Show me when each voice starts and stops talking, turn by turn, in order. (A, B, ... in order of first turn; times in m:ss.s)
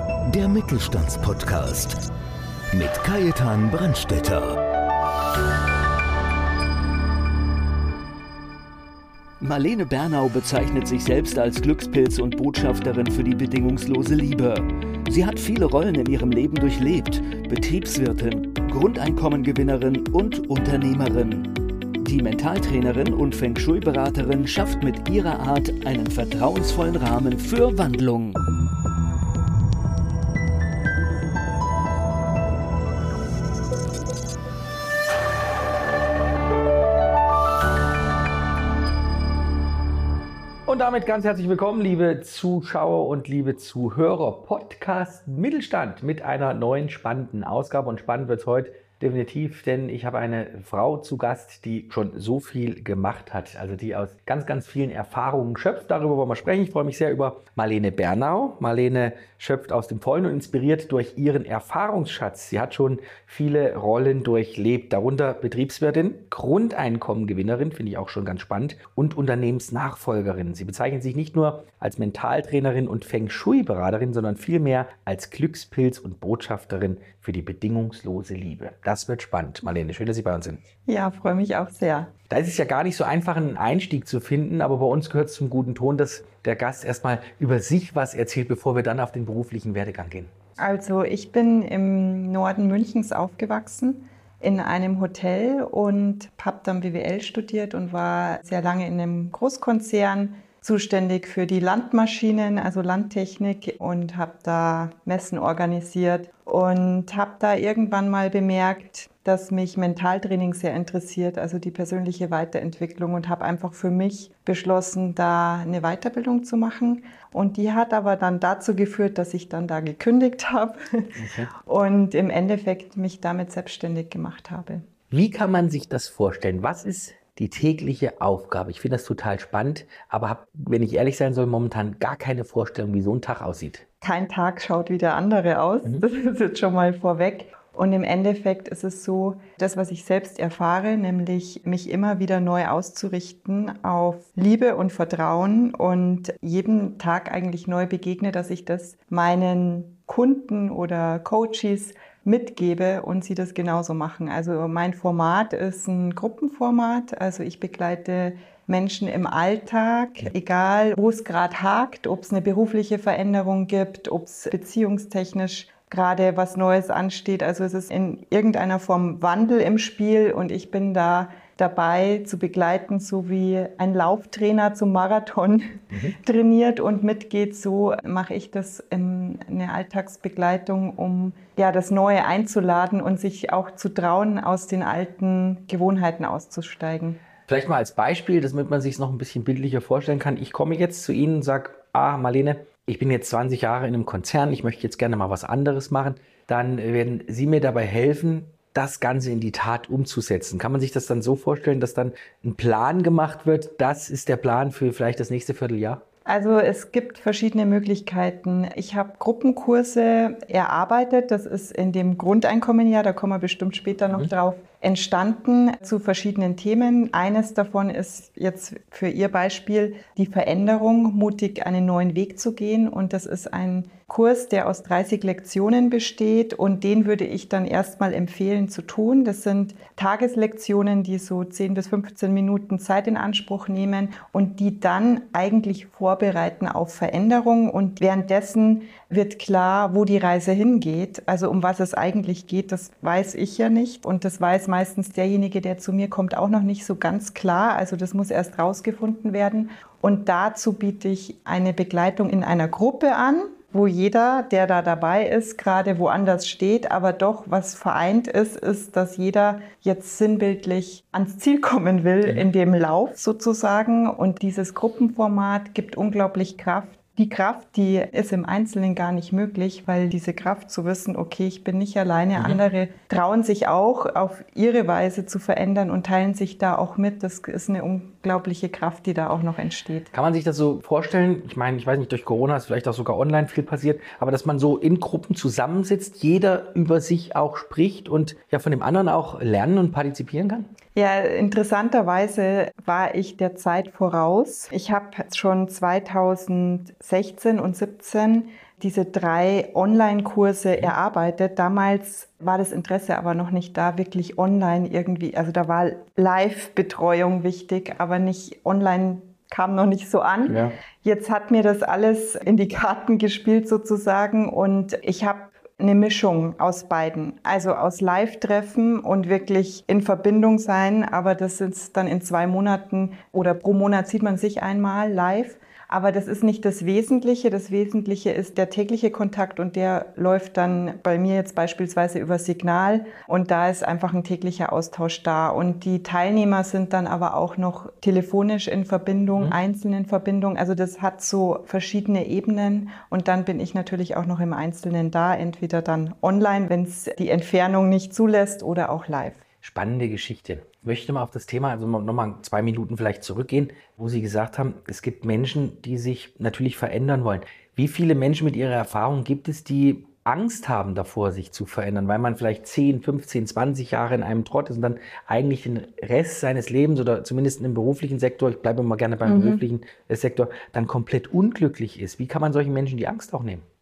0:00.2-0:02.0 A
0:02.7-0:04.6 A
0:09.4-0:28.4 B
0:40.6-1:20.6 C
1:20.8-1:22.1 D
1:22.3-1:30.3 C
1:30.6-2:01.1 D
2:01.2-2:01.5 C
2:01.6-2:04.8 D
2:05.1-2:13.8 C
2:14.0-3:07.2 D
3:07.5-3:26.0 C
3:26.2-4:40.1 D
4:40.1-4:50.7 C
4:50.9-5:49.4 D
5:10.5-5:10.7 C
5:49.6-6:13.6 C
6:09.2-6:09.6 D